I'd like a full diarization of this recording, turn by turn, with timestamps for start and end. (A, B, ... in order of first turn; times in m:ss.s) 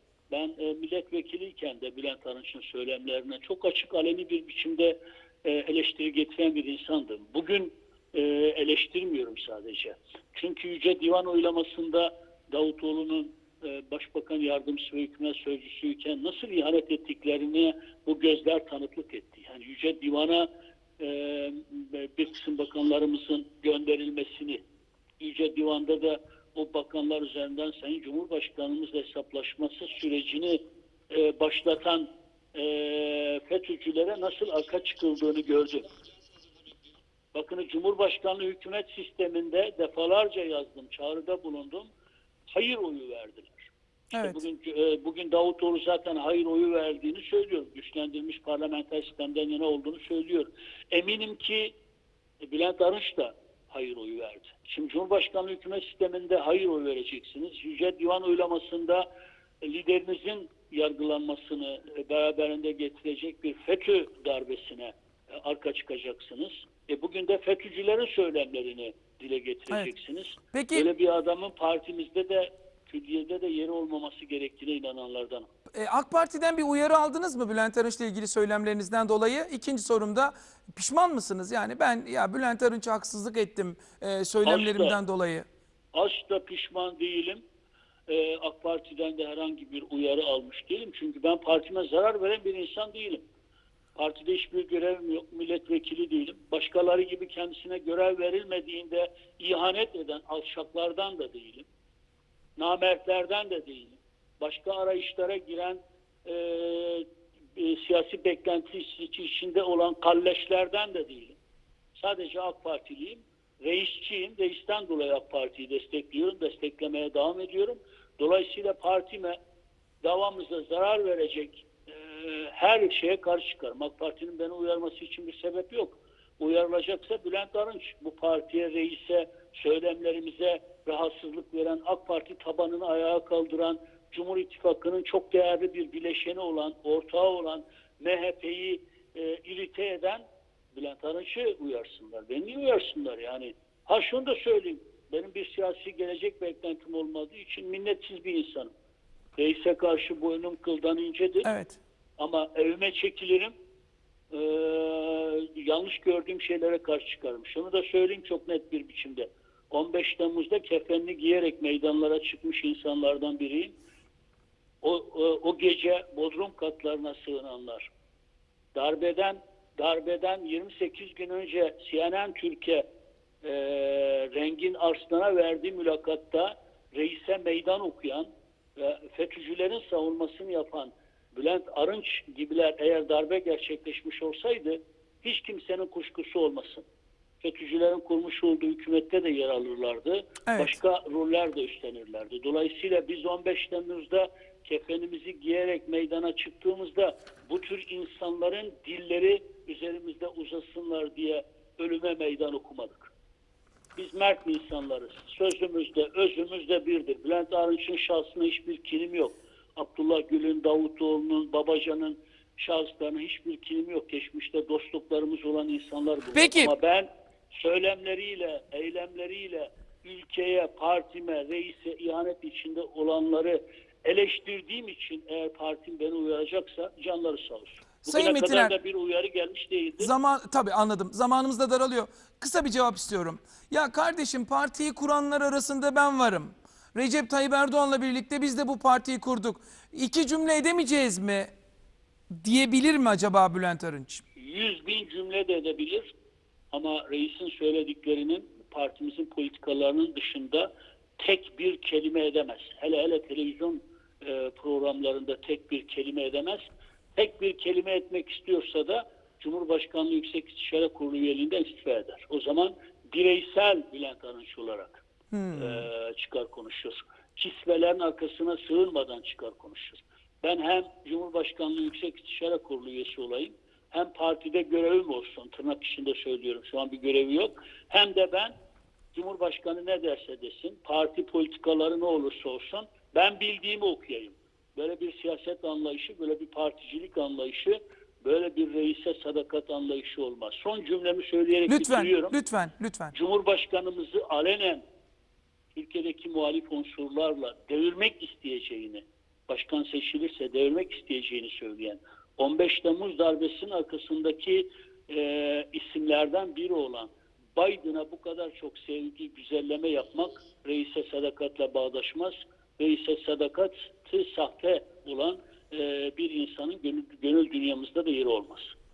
0:00.3-0:20.5 A
0:21.0-0:24.6 A
0:25.2-0:35.9 A
0:37.3-0:41.9 A
0:42.5-0:51.8 A
0:44.1-0:44.4 B
0:52.5-0:59.0 A
0:59.6-1:15.5 A
1:10.5-1:10.8 B
1:15.8-1:25.4 B
1:24.4-1:25.0 A
1:25.9-1:27.4 A
1:28.1-1:33.2 A
1:33.9-1:41.7 A
1:42.6-1:51.4 A
1:51.9-1:59.4 A
2:00.0-2:28.7 A
2:29.4-2:31.5 A
2:31.4-2:31.8 B
2:32.2-2:33.5 A
2:34.3-2:43.8 A
2:44.8-2:47.9 A
2:48.7-2:52.8 A
2:53.4-3:06.8 A
3:07.4-3:23.1 A
3:10.4-3:10.8 B
3:24.0-3:50.1 A
3:36.3-3:36.7 B
3:48.1-3:48.7 B
3:50.0-4:01.5 B
4:02.4-4:04.2 B
4:04.4-4:06.1 A
4:06.7-4:16.6 A
4:17.2-4:25.0 A
4:25.3-4:25.8 B
4:25.5-4:38.5 A
4:39.1-4:52.4 A
4:51.7-4:53.1 B
4:53.1-4:54.8 A
4:55.7-5:18.7 A